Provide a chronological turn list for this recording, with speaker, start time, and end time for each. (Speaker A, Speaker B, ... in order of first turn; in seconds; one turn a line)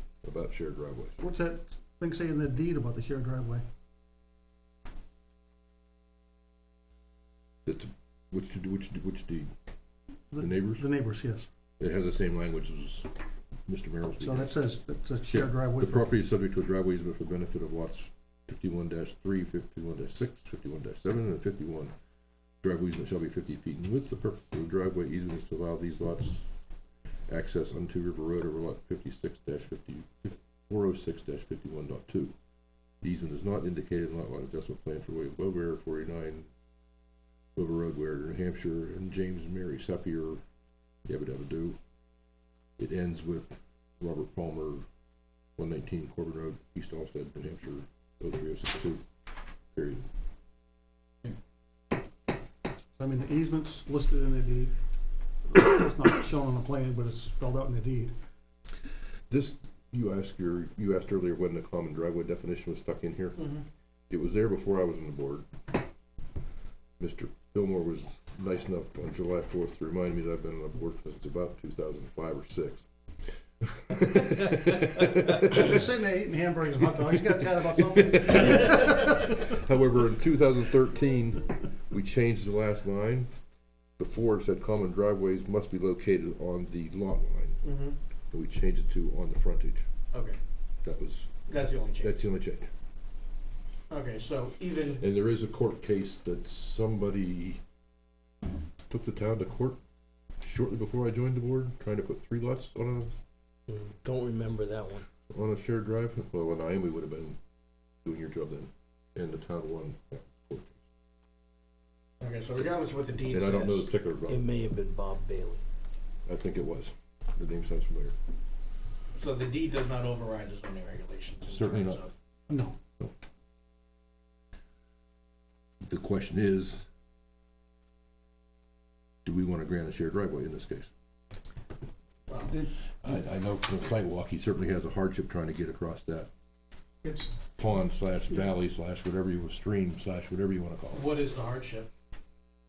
Speaker A: 0.2-1.1
Speaker B: 1.2-3.6
Speaker A: 7.7-9.5
Speaker B: 10.3-11.5
Speaker A: 10.4-10.9
Speaker A: 11.8-13.1
Speaker A: 13.7-14.6
Speaker B: 14.2-16.2
Speaker A: 15.3-21.9
Speaker A: 22.6-26.5
Speaker A: 27.3-32.3
Speaker A: 33.0-36.5
Speaker A: 37.6-40.4
Speaker A: 41.1-41.8
Speaker A: 42.8-44.9
Speaker A: 45.6-49.0
Speaker A: 49.7-50.0
Speaker B: 53.0-54.7
Speaker B: 55.5-58.1
Speaker A: 59.3-63.5
Speaker A: 64.1-65.5
Speaker A: 67.0-72.9
Speaker A: 73.7-75.8
Speaker B: 75.5-79.1
Speaker A: 77.8-83.3
Speaker A: 84.0-87.6
Speaker C: 87.6-88.0
Speaker A: 88.3-89.9
Speaker C: 90.1-90.4
Speaker A: 90.8-92.7
Speaker C: 91.5-92.1
Speaker C: 93.9-95.0
Speaker A: 95.0-97.6
Speaker A: 98.9-99.8
Speaker A: 100.4-103.2
Speaker D: 103.7-105.1
Speaker A: 105.3-107.4
Speaker A: 108.0-110.8
Speaker C: 112.2-113.9
Speaker A: 113.2-114.7
Speaker D: 114.3-115.6
Speaker A: 116.3-118.2
Speaker C: 119.2-122.1
Speaker A: 121.5-122.0
Speaker B: 122.5-122.8
Speaker A: 125.8-126.9
Speaker A: 129.2-130.9
Speaker C: 132.3-132.6
Speaker A: 133.0-136.3
Speaker B: 137.0-137.3
Speaker A: 137.6-141.1
Speaker C: 140.9-141.9